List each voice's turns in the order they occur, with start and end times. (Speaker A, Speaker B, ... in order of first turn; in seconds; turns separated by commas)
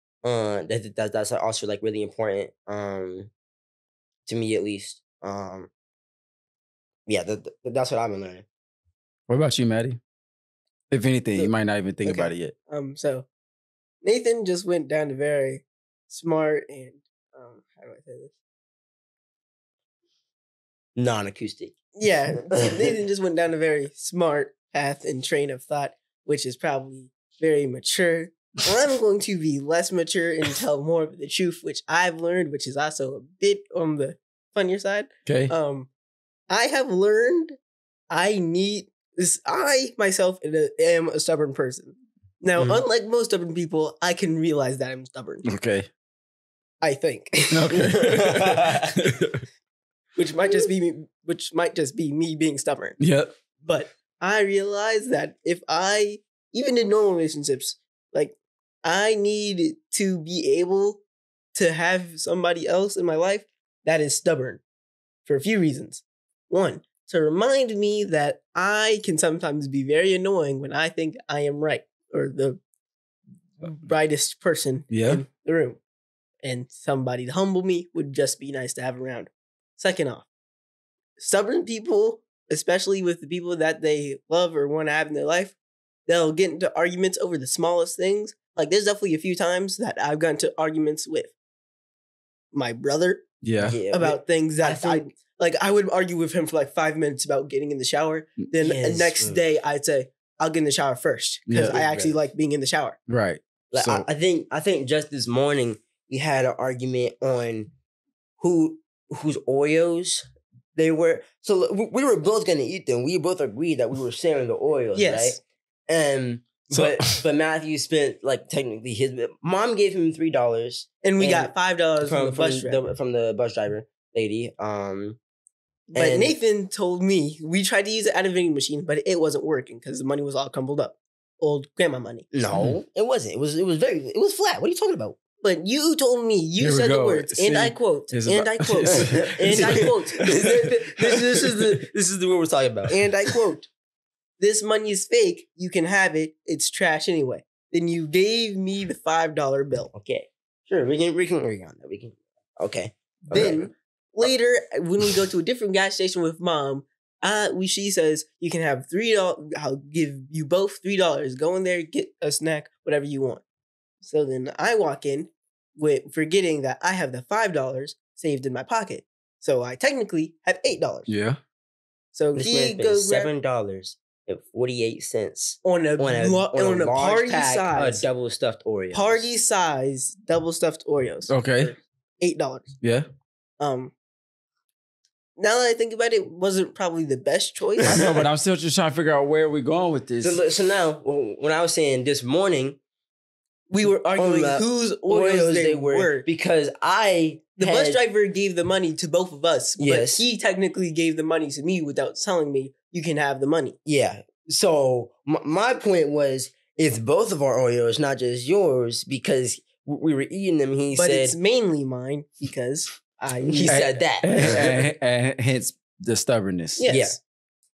Speaker A: 0.2-3.3, Speaker A: 4.2-5.7, Speaker A: 7.1-8.4, Speaker B: 9.3-10.0, Speaker B: 10.9-12.5, Speaker C: 12.1-13.2, Speaker C: 14.0-18.3, Speaker A: 20.9-21.7, Speaker C: 21.9-35.9, Speaker A: 22.6-22.9, Speaker B: 35.2-35.5, Speaker C: 36.5-37.5, Speaker C: 38.1-45.4, Speaker B: 45.4-45.9, Speaker C: 46.8-48.2, Speaker B: 47.5-49.4, Speaker A: 47.8-48.9, Speaker C: 50.1-53.0, Speaker B: 53.0-53.3, Speaker C: 53.6-61.0, Speaker C: 61.5-64.6, Speaker C: 65.2-72.6, Speaker C: 73.6-75.8, Speaker B: 74.9-75.2, Speaker C: 76.4-80.3, Speaker C: 81.2-85.5, Speaker C: 86.1-91.3, Speaker C: 92.5-93.3, Speaker B: 93.4-93.8, Speaker A: 93.6-95.0, Speaker C: 93.9-103.0, Speaker A: 98.6-99.4, Speaker B: 101.5-101.8, Speaker A: 101.5-102.2, Speaker B: 103.1-104.0, Speaker A: 103.7-107.7, Speaker A: 108.4-125.2, Speaker C: 114.9-115.4, Speaker B: 116.7-117.2, Speaker C: 121.0-122.8, Speaker C: 125.9-132.3, Speaker A: 125.9-126.3, Speaker A: 132.3-135.2, Speaker C: 135.4-141.8, Speaker B: 136.6-140.3, Speaker A: 138.9-143.0, Speaker C: 142.9-143.7, Speaker C: 144.4-149.9, Speaker A: 149.9-153.7, Speaker C: 153.3-163.4, Speaker C: 164.0-171.1, Speaker B: 171.1-171.4, Speaker C: 172.2-173.3, Speaker A: 172.3-179.2, Speaker C: 175.6-178.0, Speaker C: 178.9-182.7, Speaker B: 181.3-181.7, Speaker B: 182.8-183.1, Speaker C: 183.6-183.9, Speaker C: 185.4-188.0, Speaker B: 187.8-190.4, Speaker A: 190.2-192.8, Speaker C: 193.7-196.3, Speaker A: 194.2-198.0, Speaker C: 197.6-203.8, Speaker A: 199.8-200.2, Speaker A: 203.9-211.4, Speaker C: 210.9-214.6, Speaker A: 213.4-214.6, Speaker B: 213.7-216.9, Speaker C: 216.8-217.2, Speaker A: 216.9-217.2